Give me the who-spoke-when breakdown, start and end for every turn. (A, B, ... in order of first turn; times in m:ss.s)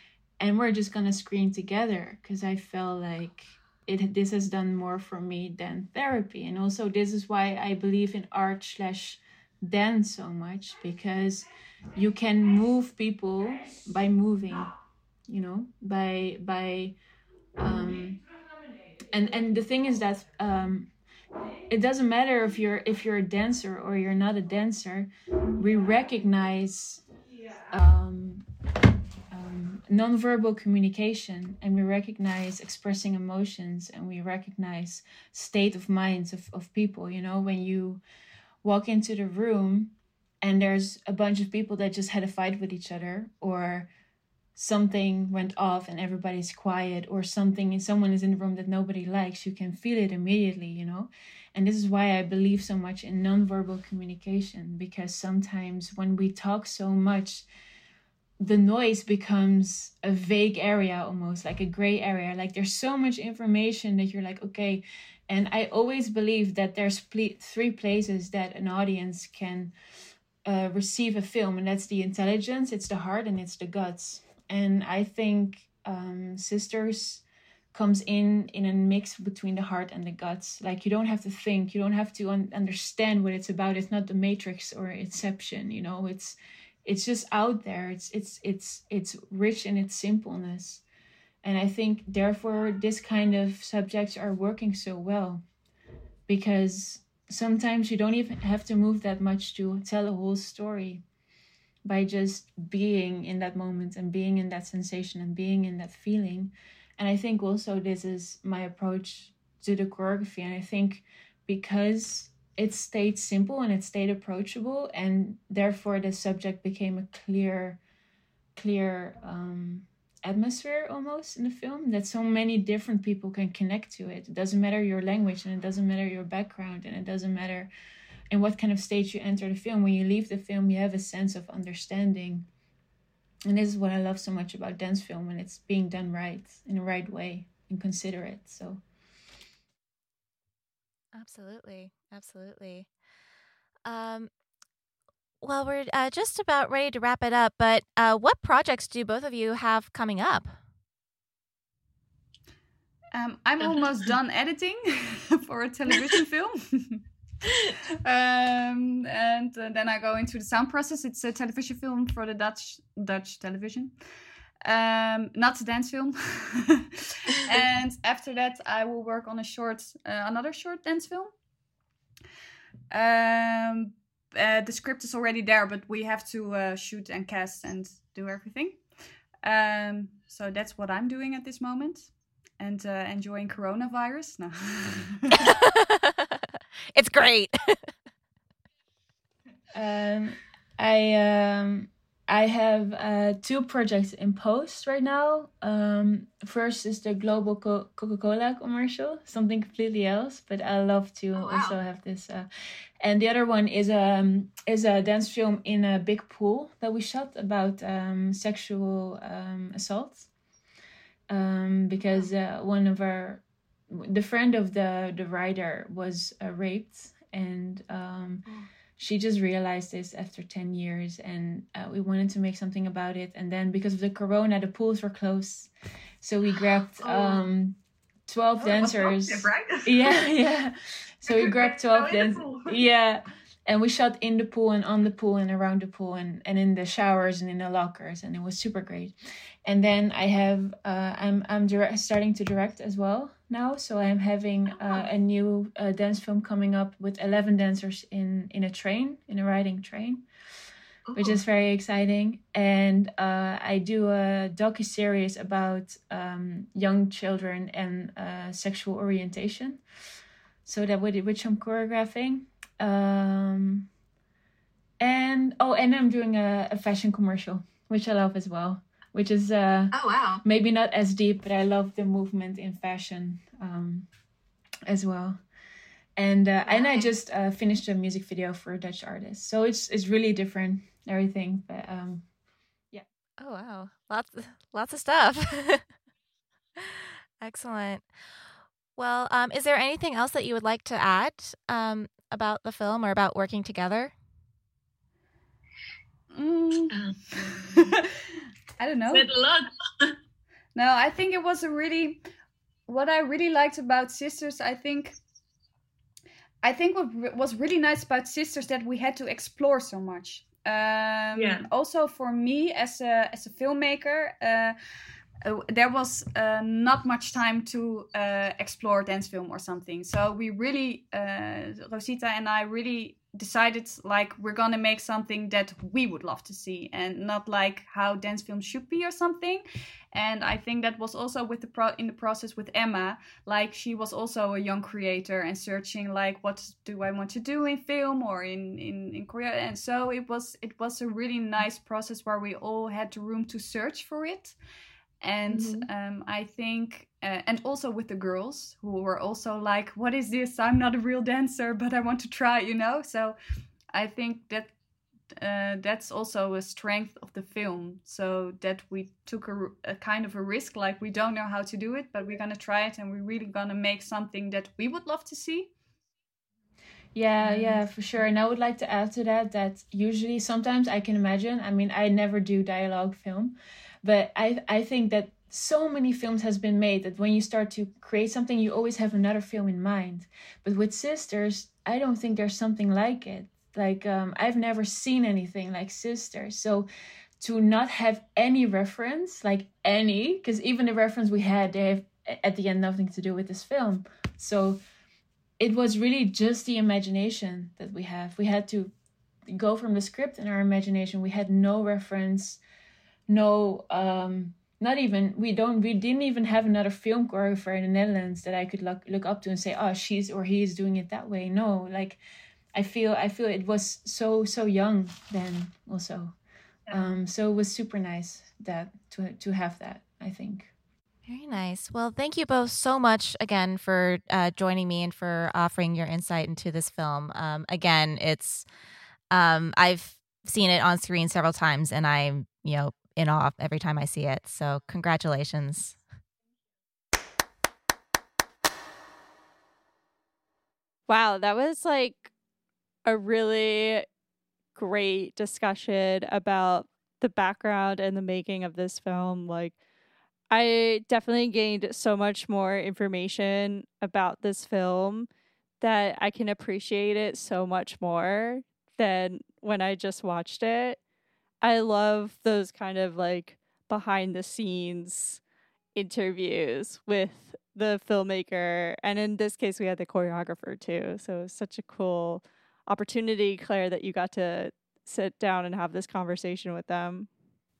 0:00.4-0:14.7 A
0:15.3-0:16.9 A
0:17.6-0:18.2 A
0:19.1-0:20.9 A
0:21.7-0:27.0 A
0:27.7-0:28.4 A
0:29.3-0:38.0 A
0:38.6-0:43.9 A
0:44.6-0:57.4 A
0:58.4-1:09.7 A
1:10.4-1:30.8 A
1:31.4-1:35.4 A
1:36.3-1:41.0 A
1:41.8-1:57.8 A
1:58.6-2:07.7 A
2:08.3-2:12.4 A
2:13.5-2:18.8 A
2:21.1-2:22.9 B
2:23.8-2:24.3 B
2:25.4-2:30.6 B
2:33.1-2:37.0 C
2:38.0-2:43.9 C
2:44.6-2:51.3 C
2:52.9-2:58.8 C
2:59.4-3:05.5 C
3:05.3-3:06.4 B
3:06.9-3:07.9 B
3:09.7-3:22.5 A
3:21.3-3:21.8 D
3:23.0-3:30.3 A
3:31.3-3:38.4 A
3:39.0-3:45.7 A
3:46.2-3:59.1 A
3:48.7-3:49.6 D
3:51.3-3:52.7 D
3:59.6-4:10.2 A
4:11.1-4:11.4 D
4:11.1-4:19.8 A
4:20.6-4:23.9 A
4:25.0-4:34.1 A
4:29.9-4:30.4 D
4:34.9-4:35.4 A
4:36.2-4:42.2 A
4:36.7-4:37.0 D
4:43.4-4:45.8 B
4:46.8-4:48.0 B
4:49.0-4:54.1 B
4:56.3-4:57.0 C
4:56.9-4:58.0 D
4:57.5-4:58.1 C
4:58.8-4:59.3 C
4:59.1-5:00.2 D
5:00.7-5:02.2 C
5:02.9-5:05.2 C
5:06.6-5:14.8 C
5:11.4-5:11.7 D
5:15.4-5:44.6 C
5:45.2-5:53.4 C
5:45.5-5:45.9 D
5:53.9-5:54.7 C
5:55.4-6:05.7 C
6:07.1-6:26.9 A
6:27.4-6:34.8 A
6:35.6-6:38.9 A
6:39.5-6:42.6 A
6:43.3-6:52.2 A
6:52.7-6:56.3 A
6:56.9-7:00.7 A
7:01.3-7:08.6 B
7:09.3-7:16.0 B
7:21.1-7:22.3 E
7:23.0-7:24.0 E
7:24.8-7:29.8 E
7:30.5-7:35.3 E
7:35.8-7:41.0 E
7:41.6-7:45.4 E
7:45.9-7:57.3 E